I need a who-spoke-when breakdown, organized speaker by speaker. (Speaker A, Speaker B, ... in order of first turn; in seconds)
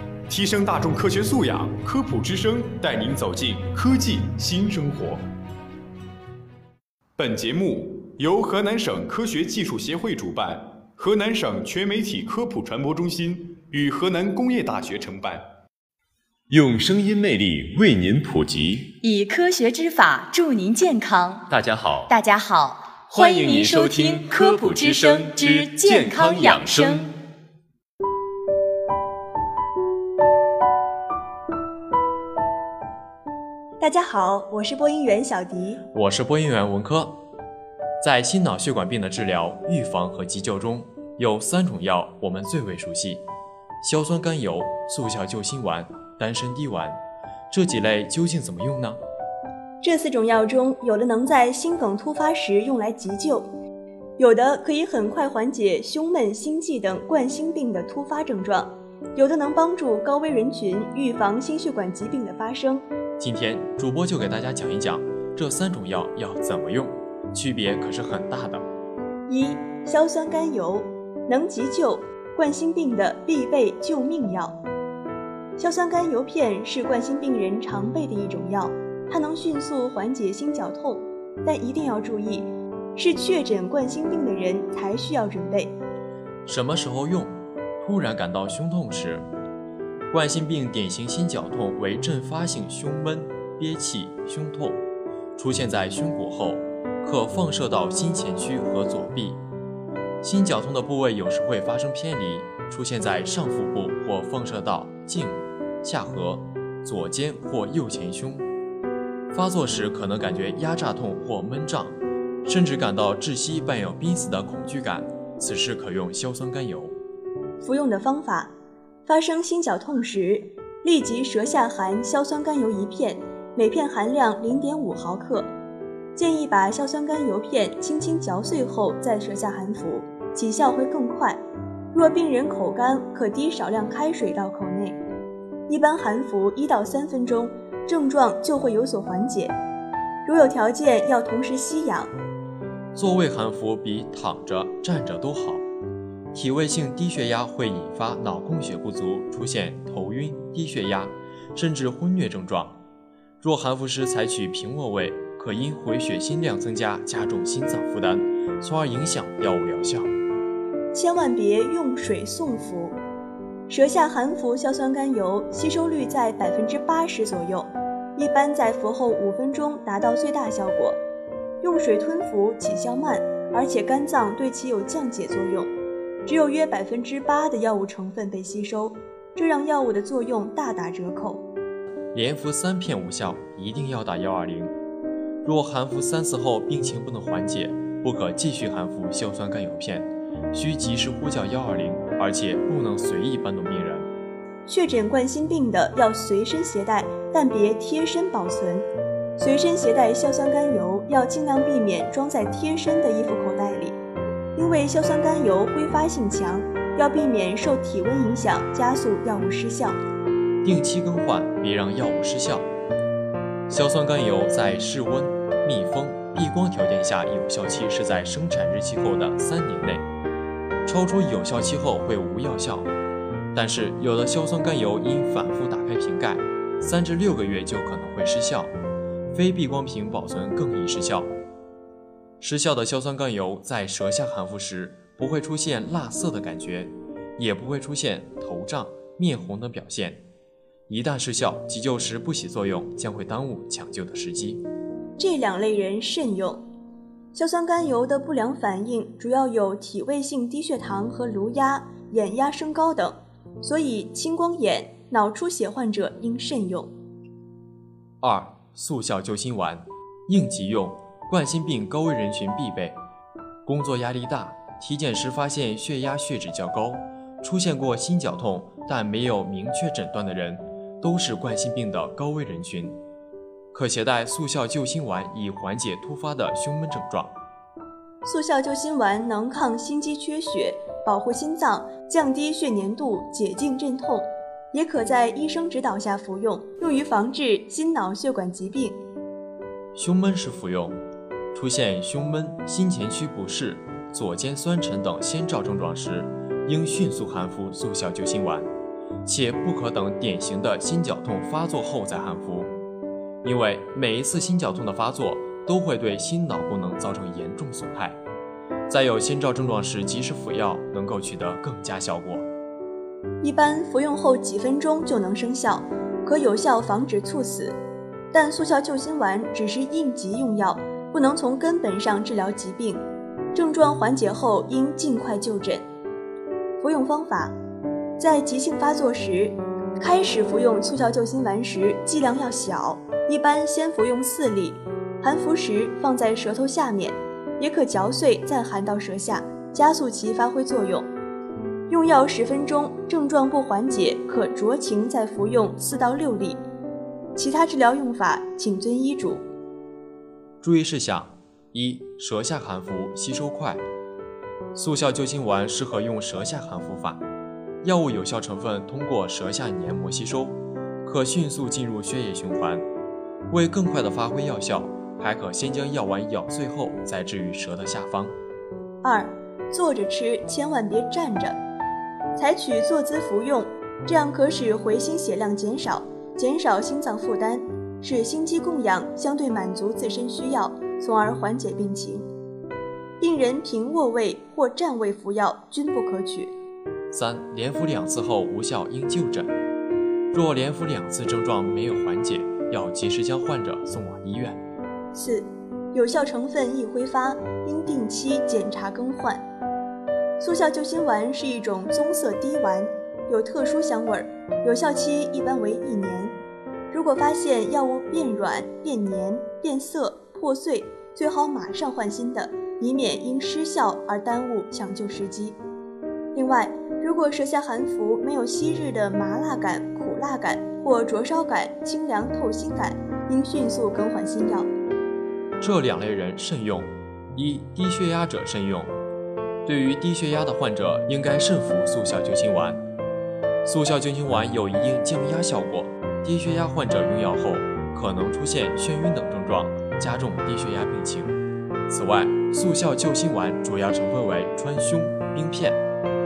Speaker A: 0.3-5.2, 7.2-15.4
Speaker B: 16.5-19.0, 21.5-22.1, 23.1-27.1
Speaker C: 19.0-21.4, 22.1-27.1
Speaker D: 33.8-35.8, 49.8-53.5, 54.2-62.8, 69.3-74.6, 75.6-85.7, 117.6-118.5, 119.0-125.5, 126.1-131.4, 131.9-135.0, 135.7-139.5, 140.2-142.1, 160.9-163.0, 163.7-171.0, 171.6-175.7, 176.2-181.4, 194.7-198.8, 199.4-204.0, 204.6-210.0, 245.2-246.6, 247.3-256.9, 278.2-289.0, 313.4-317.8, 318.3-323.0, 323.5-325.8, 326.8-327.5, 328.2-341.1, 341.9-346.6, 347.4-349.4, 369.0-371.6, 372.3-382.3, 383.2-386.5, 395.1-399.4, 400.4-406.3, 406.9-415.6, 416.3-424.7
Speaker E: 35.9-37.1, 38.0-43.2, 43.8-47.0, 47.5-49.0, 63.2-68.6, 86.5-89.2, 90.1-94.8, 95.3-99.4, 100.2-108.4, 109.3-116.9, 142.9-145.6, 146.3-152.8, 153.4-160.1, 182.1-184.7, 185.4-194.1, 210.6-212.7, 213.7-220.0, 220.8-222.9, 223.5-228.7, 229.3-231.3, 232.4-240.2, 240.9-244.6, 258.2-263.0, 263.6-272.9, 273.7-277.3, 289.9-291.0, 291.5-298.7, 299.2-302.7, 303.4-308.2, 308.9-312.4, 350.6-353.8, 354.7-357.2, 357.8-362.8, 363.5-368.3, 387.1-389.5, 390.3-394.6, 425.6-428.9, 429.6-432.8, 433.6-441.4, 441.9-445.8